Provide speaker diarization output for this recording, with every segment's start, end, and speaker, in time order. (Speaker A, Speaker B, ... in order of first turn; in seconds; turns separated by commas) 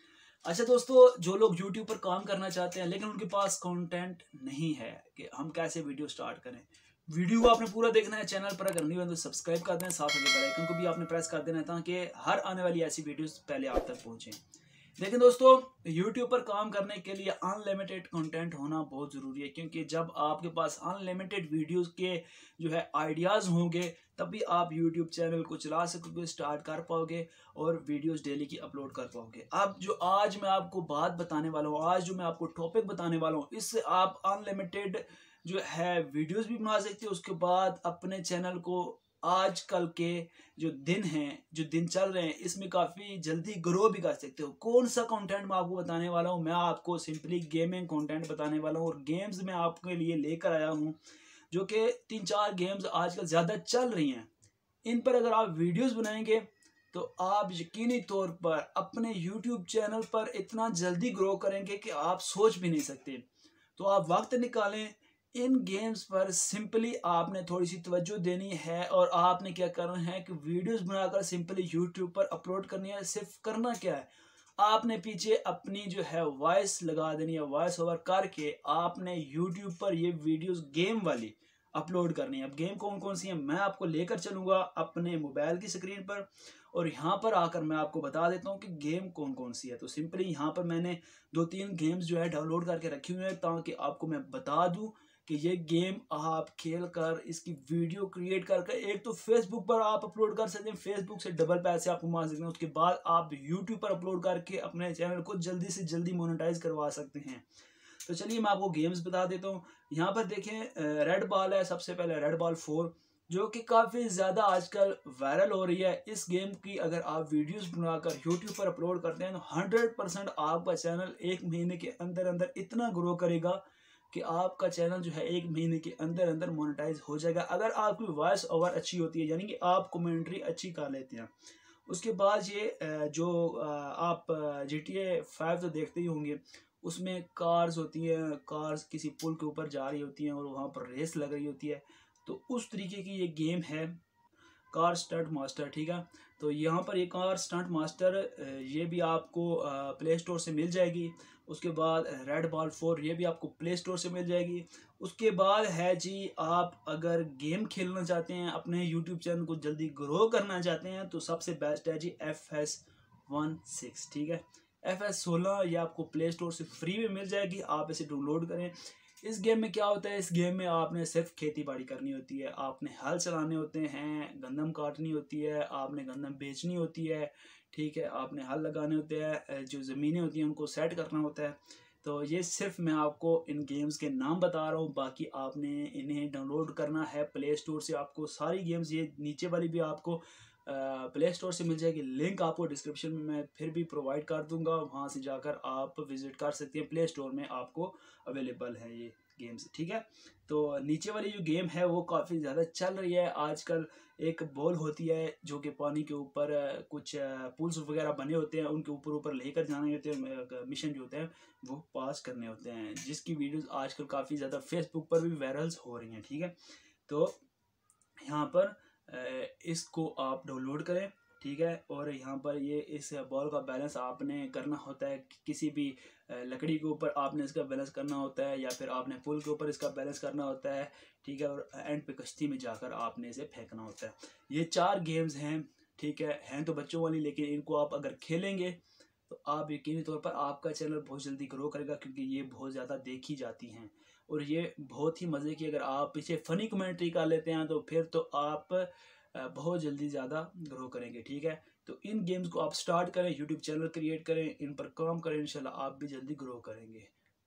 Speaker A: 0.5-14.4, Speaker A: 15.0-51.0, Speaker A: 51.5-54.3, Speaker A: 54.9-63.2, Speaker A: 63.8-107.4, Speaker A: 108.0-131.3, Speaker A: 131.9-144.0, Speaker A: 144.7-216.5, Speaker A: 217.1-217.4, Speaker A: 218.2-238.8, Speaker A: 239.3-257.1